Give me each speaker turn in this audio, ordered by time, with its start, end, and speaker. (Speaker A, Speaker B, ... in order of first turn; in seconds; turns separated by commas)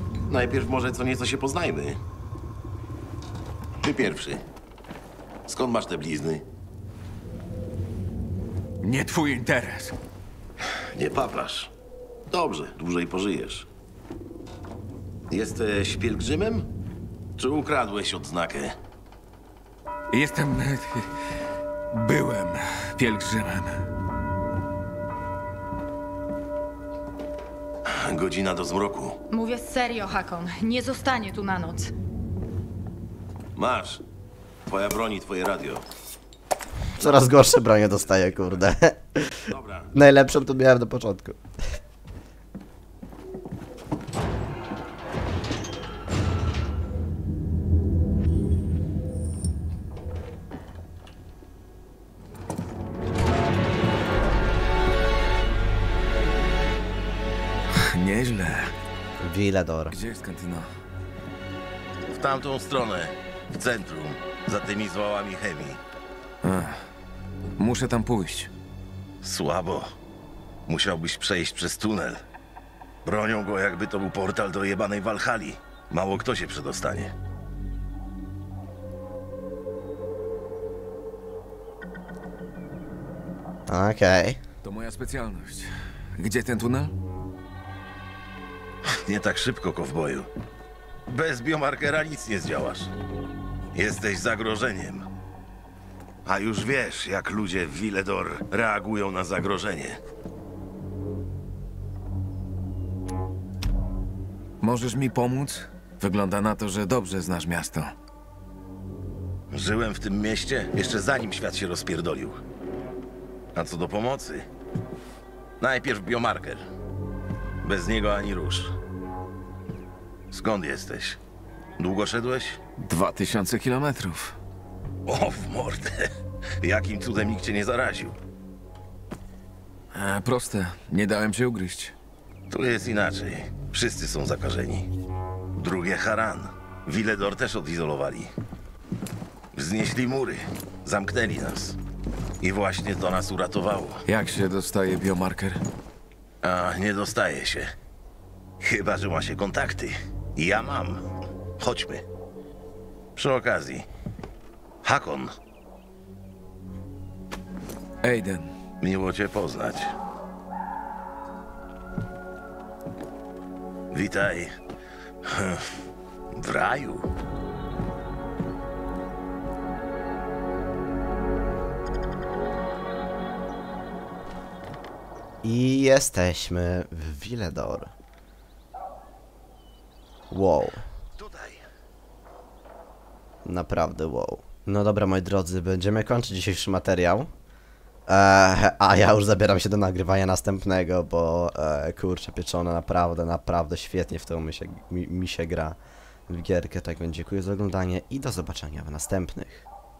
Speaker A: 0.3-2.0, Speaker A: 3.8-4.4, Speaker A: 5.5-6.5, Speaker B: 8.8-9.9, Speaker A: 10.9-11.7, Speaker A: 12.3-13.7, Speaker A: 15.3-16.7, Speaker A: 17.4-18.8, Speaker B: 20.1-21.1, Speaker B: 21.9-23.8, Speaker A: 27.8-29.2, Speaker C: 29.3-31.9, Speaker A: 33.5-34.0, Speaker A: 34.7-35.8, Speaker D: 37.0-41.4, Speaker A: 39.5-39.9, Speaker B: 57.8-58.7, Speaker D: 59.2-60.0, Speaker B: 59.9-60.7, Speaker A: 62.0-65.8, Speaker B: 66.4-66.8, Speaker B: 67.6-68.5, Speaker A: 69.2-69.9, Speaker A: 70.7-72.2, Speaker A: 73.0-77.1, Speaker D: 83.7-84.4, Speaker B: 84.6-86.9, Speaker A: 88.8-90.3, Speaker A: 91.1-92.9, Speaker A: 93.7-95.1, Speaker A: 96.2-100.0, Speaker B: 104.6-107.9, Speaker A: 109.5-112.4, Speaker A: 113.5-114.5, Speaker A: 115.6-116.6, Speaker A: 117.6-118.7, Speaker A: 120.3-121.2, Speaker A: 121.8-122.6, Speaker B: 122.8-124.4, Speaker A: 125.0-126.1, Speaker A: 126.6-128.2, Speaker B: 129.9-131.9, Speaker A: 132.5-134.9, Speaker A: 135.6-138.3, Speaker A: 139.5-141.8, Speaker A: 142.4-144.0, Speaker B: 144.1-145.6, Speaker A: 146.4-147.7, Speaker A: 148.6-151.0, Speaker A: 151.6-152.1, Speaker A: 153.2-153.9, Speaker A: 154.8-155.3, Speaker B: 158.0-158.5, Speaker A: 158.8-159.9, Speaker A: 163.9-164.5, Speaker A: 165.2-165.7, Speaker A: 166.3-167.1, Speaker D: 175.4-177.9, Speaker D: 180.3-180.8, Speaker A: 181.2-181.6, Speaker D: 183.4-187.3, Speaker D: 188.1-195.8, Speaker D: 196.3-199.6